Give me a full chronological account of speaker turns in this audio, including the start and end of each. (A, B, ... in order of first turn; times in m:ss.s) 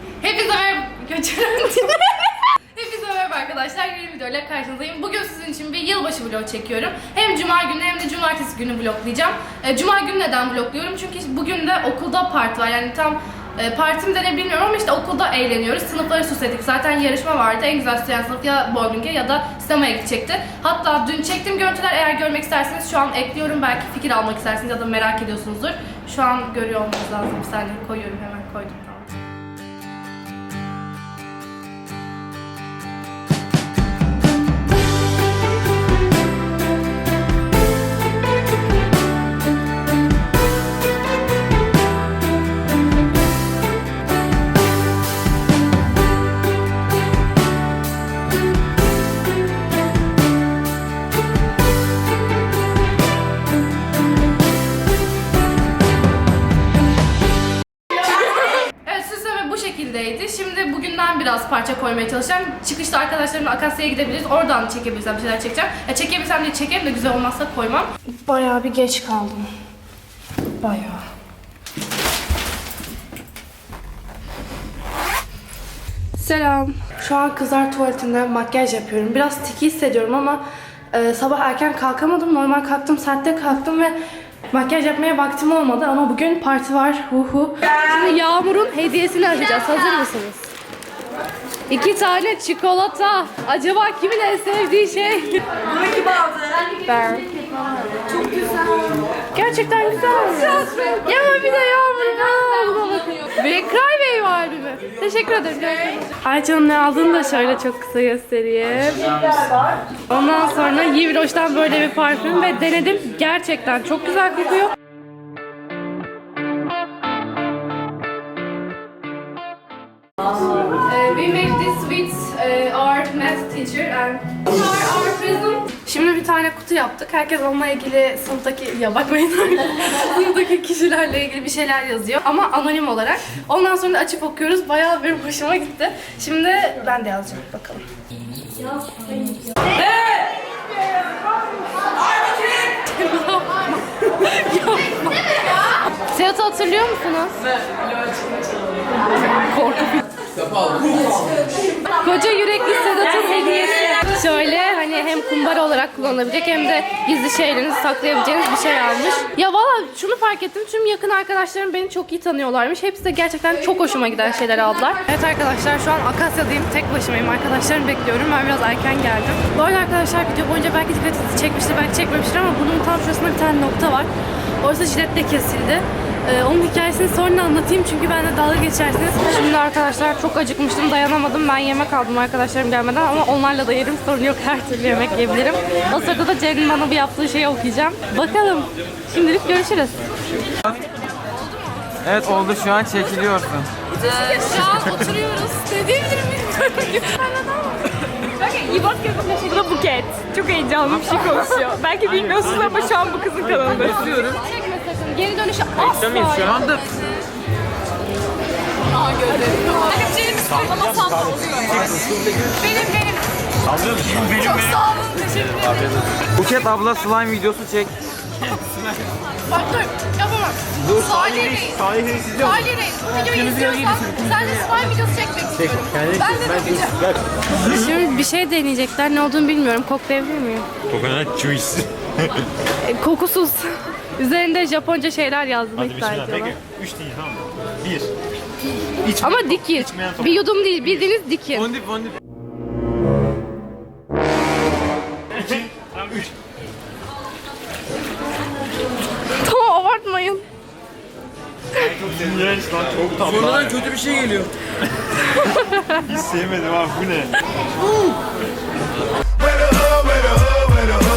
0:00.2-0:29.1 A
0:58.0-1:09.5 A
1:10.6-1:11.0 A
1:16.2-1:24.0 A
1:24.5-1:30.5 A
1:31.7-1:35.6 A
1:36.8-1:37.3 A
1:39.3-1:49.3 A
1:50.1-1:54.8 A
2:00.7-2:17.9 A
2:22.7-2:25.3 A
2:26.1-2:27.4 A
2:29.0-2:30.0 A
2:32.0-2:54.1 A
2:54.6-3:10.0 A
3:12.0-3:13.7 B
3:13.9-3:17.9 A
3:18.4-3:24.2 C
3:23.8-3:26.8 A
3:24.0-3:24.4 B
3:25.8-3:26.8 B
3:29.6-3:31.4 A
3:32.5-3:33.2 A
3:33.9-3:36.0 A
3:36.4-3:37.9 B
3:39.5-3:50.7 A
3:51.0-3:51.9 D
3:52.8-3:56.6 A
3:59.0-4:01.8 A
4:01.6-4:02.2 B
4:09.4-4:10.4 A
4:11.8-4:12.0 A
4:12.3-4:13.0 D
4:13.1-4:14.5 B
4:15.2-4:16.2 A
4:16.4-4:17.3 D